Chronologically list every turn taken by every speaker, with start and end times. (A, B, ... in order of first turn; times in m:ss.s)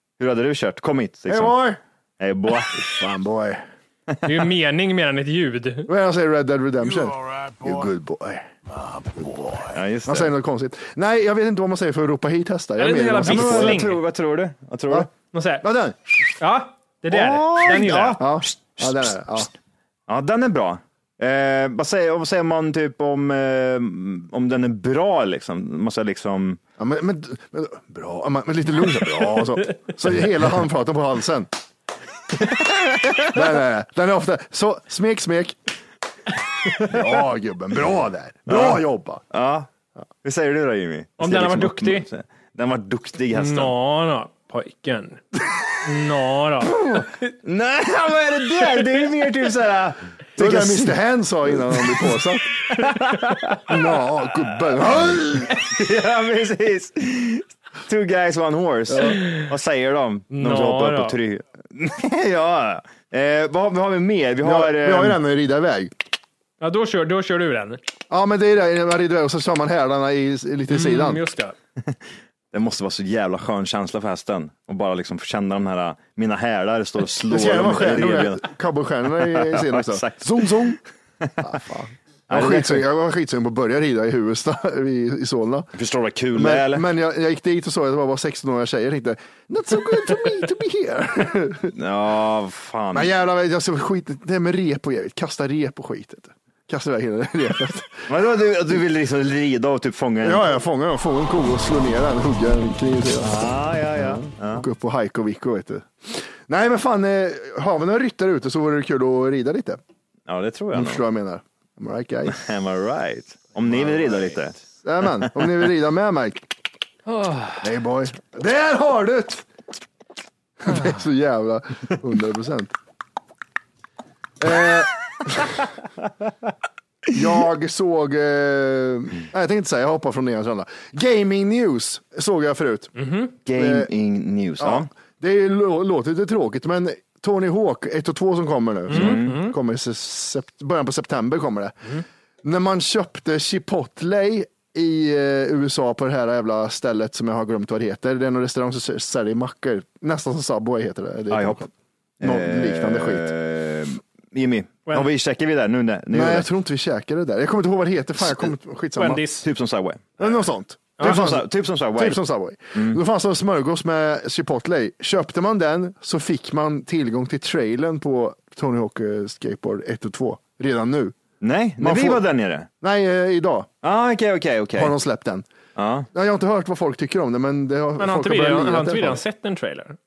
0:00.2-0:01.6 A
0:01.3-0:01.8 B
0:02.2-0:03.0 A
0:02.9-0:03.6 B
0:04.1-0:04.4 A
0:04.2-0:05.9 C
0:05.9-0:13.8 B
0:09.7-0:10.3 A
0:12.8-0:14.0 C
0:13.2-0:15.1 A
0:15.3-0:15.6 C
0:15.6-0:16.0 B
0:16.4-0:18.3 C
0:17.1-0:19.5 A
0:18.2-0:19.5 B
0:20.1-0:26.6 A
0:26.8-0:31.5 B
0:32.6-0:33.3 A
0:33.3-0:35.6 B
0:36.8-0:39.2 B
0:38.5-0:39.7 A
0:40.2-0:43.7 A
0:41.2-0:42.1 C
0:43.3-0:45.2 C
0:45.8-0:47.3 C
0:46.7-0:47.0 B
0:47.4-0:51.0 A
0:48.6-0:49.3 C
0:50.4-0:52.6 B
0:51.6-0:52.2 A
0:52.7-0:53.8 A
0:53.7-0:55.6 B
0:55.6-1:05.2 A
0:59.0-0:59.4 C
1:00.3-1:01.2 C
1:04.4-1:05.9 B
1:06.6-1:07.8 C
1:08.1-1:11.2 B
1:10.7-1:11.6 C
1:12.5-1:18.5 A
1:17.3-1:20.8 B
1:19.4-1:21.5 A
1:21.4-1:25.7 B
1:22.3-1:22.8 A
1:25.7-1:26.8 A
1:26.3-1:31.7 B
1:31.8-1:33.1 A
1:32.9-1:38.1 B
1:38.1-1:40.5 A
1:40.2-1:43.4 B
1:43.2-1:44.6 A
1:44.0-1:49.8 B
1:50.3-1:51.0 A
1:50.7-1:52.4 B
1:52.3-1:54.6 A
1:54.8-1:56.5 B
1:57.1-1:57.6 C
1:57.6-1:59.5 B
2:00.6-2:02.7 B
2:04.4-2:05.7 B
2:07.1-2:12.9 B
2:13.0-2:13.3 C
2:13.4-2:14.9 A
2:13.5-2:13.9 B
2:14.6-2:31.7 B
2:18.9-2:19.4 A
2:18.9-2:19.6 C
2:31.3-2:31.7 A
2:32.2-2:36.5 A
2:32.2-2:33.3 B
2:36.1-2:39.2 B
2:39.0-2:39.4 C
2:39.4-2:40.3 A
2:40.2-2:51.2 B
2:41.0-2:42.2 A
2:42.7-2:43.0 A
2:51.4-2:52.7 A
2:51.8-2:52.2 B
2:52.8-2:53.7 B
2:53.8-2:54.9 A
2:54.8-2:55.5 B
2:55.8-2:56.1 A
2:56.1-2:59.2 B
2:58.0-3:00.0 C